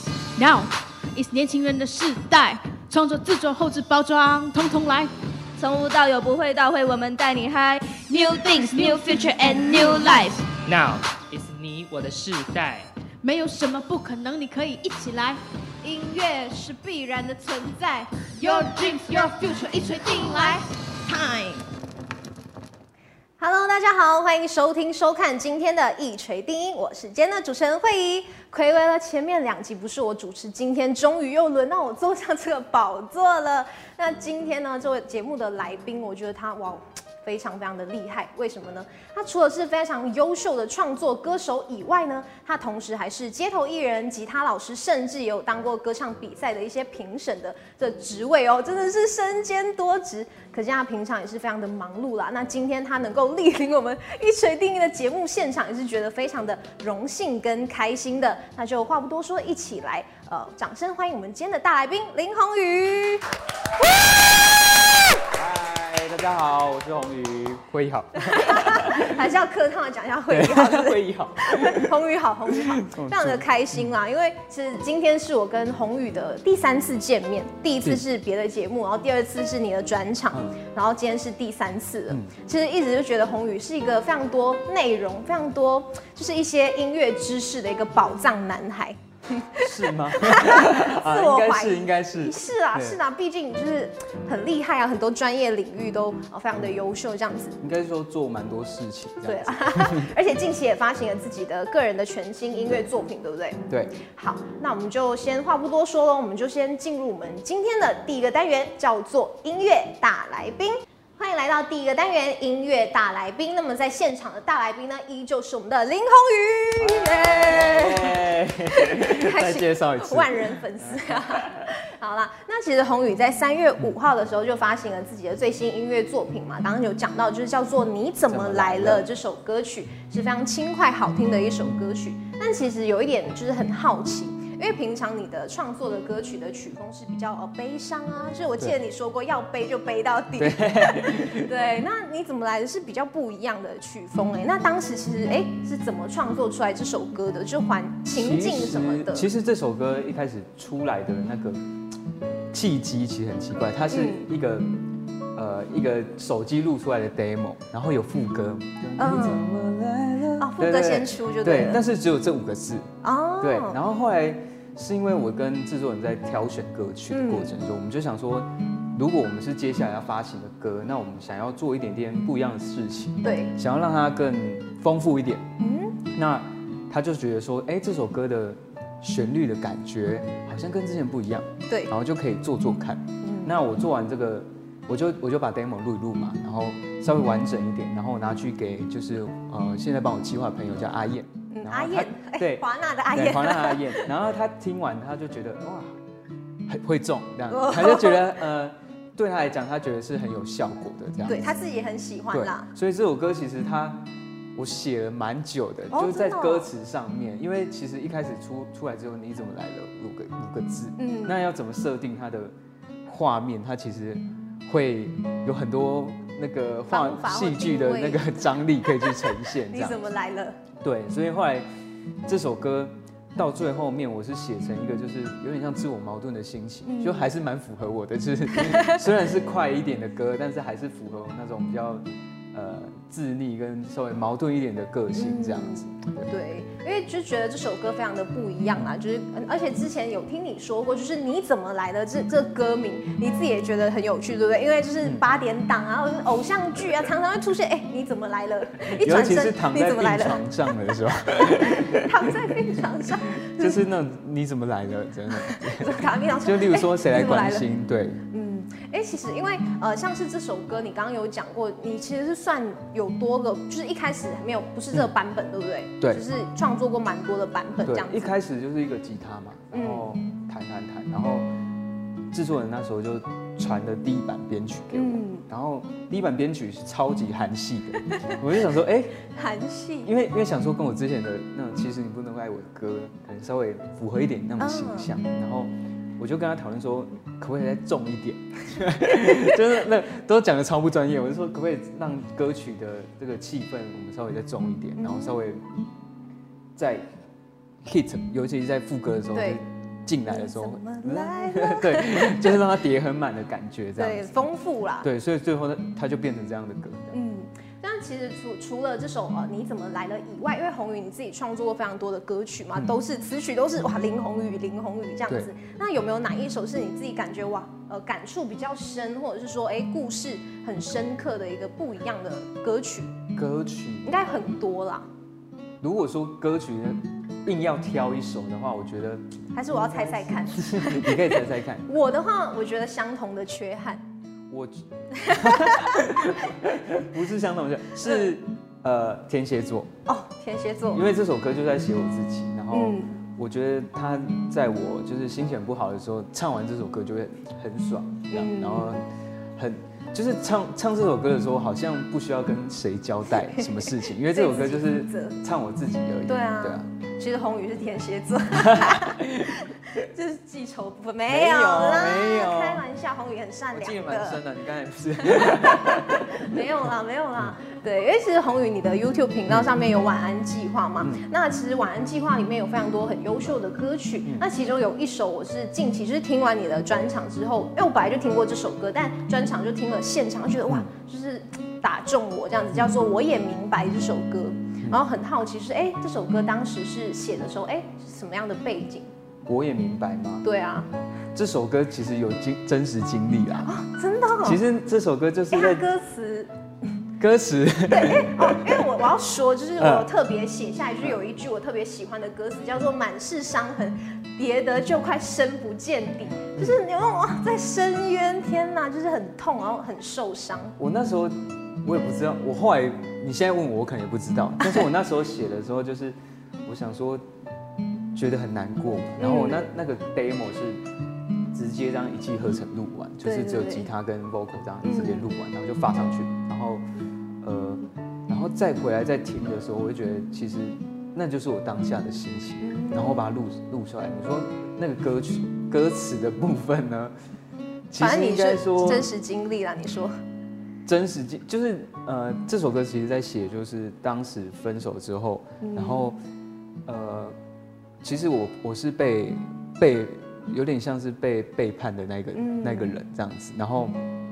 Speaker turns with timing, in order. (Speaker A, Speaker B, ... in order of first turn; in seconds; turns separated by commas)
Speaker A: 0.4-5.1, Speaker B: 5.6-10.5, Speaker A: 8.2-10.3, Speaker C: 10.6-12.9, Speaker A: 13.2-15.4, Speaker B: 15.8-21.6, Speaker A: 17.4-17.8, Speaker A: 18.4-20.6, Speaker D: 23.4-63.2, Speaker E: 65.2-69.3, Speaker D: 68.2-97.6, Speaker E: 70.3-71.9, Speaker E: 72.5-73.9, Speaker E: 80.3-80.6, Speaker E: 89.6-93.0, Speaker E: 97.6-100.1, Speaker D: 99.2-149.3, Speaker E: 103.7-104.0, Speaker E: 116.8-121.7, Speaker E: 128.3-129.1, Speaker E: 140.4-141.5, Speaker E: 148.1-151.6, Speaker E: 152.5-154.7, Speaker D: 153.9-154.2, Speaker E: 155.3-162.9, Speaker D: 159.0-159.4, Speaker D: 160.4-161.8, Speaker D: 163.0-163.8, Speaker E: 163.4-175.4, Speaker D: 167.1-167.6, Speaker D: 173.2-173.5, Speaker D: 175.6-176.0, Speaker E: 176.0-195.9, Speaker D: 183.2-183.5, Speaker D: 191.5-194.1, Speaker E: 196.7-201.6, Speaker D: 197.5-198.2, Speaker D: 201.2-202.7, Speaker E: 202.3-212.5, Speaker D: 205.9-206.7, Speaker D: 211.0-211.4, Speaker E: 213.1-220.1, Speaker D: 216.9-220.6, Speaker E: 220.8-221.7, Speaker E: 222.2-236.3, Speaker D: 226.8-227.3, Speaker D: 228.7-229.0, Speaker D: 235.2-250.8, Speaker E: 248.8-252.5, Speaker D: 251.4-253.8, Speaker E: 253.4-258.2, Speaker D: 255.4-257.7, Speaker D: 258.3-268.3, Speaker E: 267.8-271.5, Speaker D: 269.7-270.1, Speaker E: 272.3-279.2, Speaker D: 274.9-275.4, Speaker D: 278.0-278.4, Speaker D: 279.3-280.1, Speaker E: 280.0-295.7, Speaker D: 284.6-285.1, Speaker D: 295.0-295.4, Speaker E: 296.8-297.1, Speaker E: 297.8-304.4, Speaker D: 299.3-299.6, Speaker D: 300.3-302.5, Speaker D: 304.0-305.1, Speaker E: 305.0-307.2, Speaker D: 307.1-323.1, Speaker E: 323.3-324.2, Speaker D: 324.0-325.1, Speaker E: 325.8-331.9, Speaker D: 329.5-334.0, Speaker E: 334.5-339.9, Speaker D: 335.1-336.1, Speaker D: 338.0-338.3, Speaker D: 340.1-341.0, Speaker E: 340.9-349.0, Speaker D: 342.7-343.1, Speaker D: 348.3-348.9, Speaker E: 349.6-356.9, Speaker D: 353.4-355.4, Speaker D: 356.3-364.4, Speaker E: 358.5-359.6, Speaker E: 361.3-362.8, Speaker E: 363.7-366.6, Speaker D: 365.2-389.1, Speaker E: 389.4-390.4, Speaker D: 390.4-390.9, Speaker E: 391.3-393.8, Speaker D: 393.6-394.6, Speaker E: 394.4-395.9, Speaker D: 395.5-396.5, Speaker E: 397.2-398.9, Speaker D: 397.9-410.8, Speaker E: 399.8-400.1, Speaker E: 410.8-417.3, Speaker E: 418.1-420.8, Speaker D: 419.2-419.6, Speaker E: 421.5-426.8, Speaker D: 423.2-423.9, Speaker D: 424.8-425.2, Speaker E: 427.4-437.1, Speaker D: 432.6-433.2, Speaker E: 437.9-439.1, Speaker D: 438.0-440.1, Speaker E: 440.9-446.2, Speaker D: 445.6-446.1, Speaker E: 446.9-447.4, Speaker E: 448.0-454.0, Speaker D: 452.3-453.0